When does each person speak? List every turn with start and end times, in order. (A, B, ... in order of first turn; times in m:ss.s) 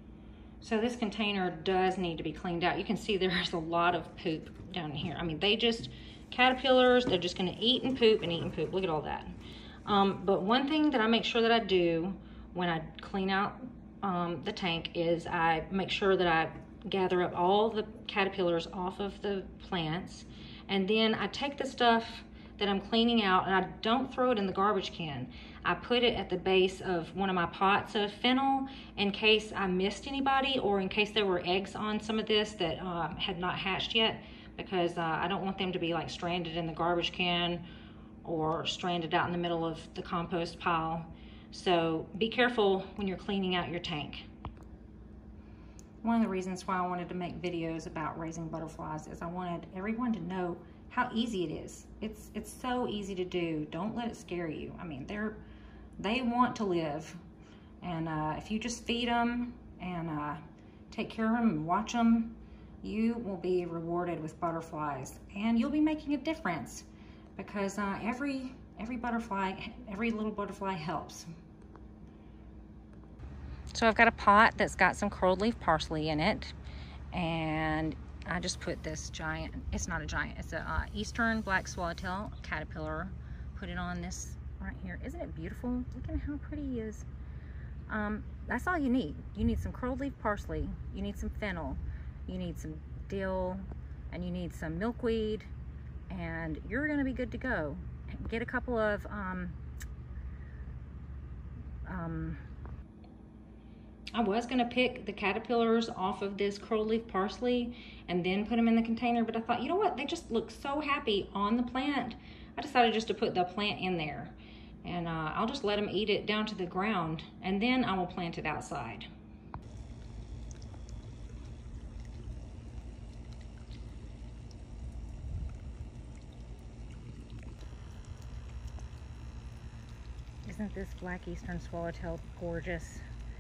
0:00.6-0:37.6 A
0:38.2-0:44.3 A
0:46.0-0:55.4 A
0:56.0-0:57.2 A
0:57.8-1:11.3 A
1:13.7-1:16.6 A
1:17.1-1:27.1 A
1:27.9-1:35.5 A
1:36.1-1:39.6 A
1:41.9-1:42.4 A
1:44.1-1:59.1 A
2:10.4-2:13.0 A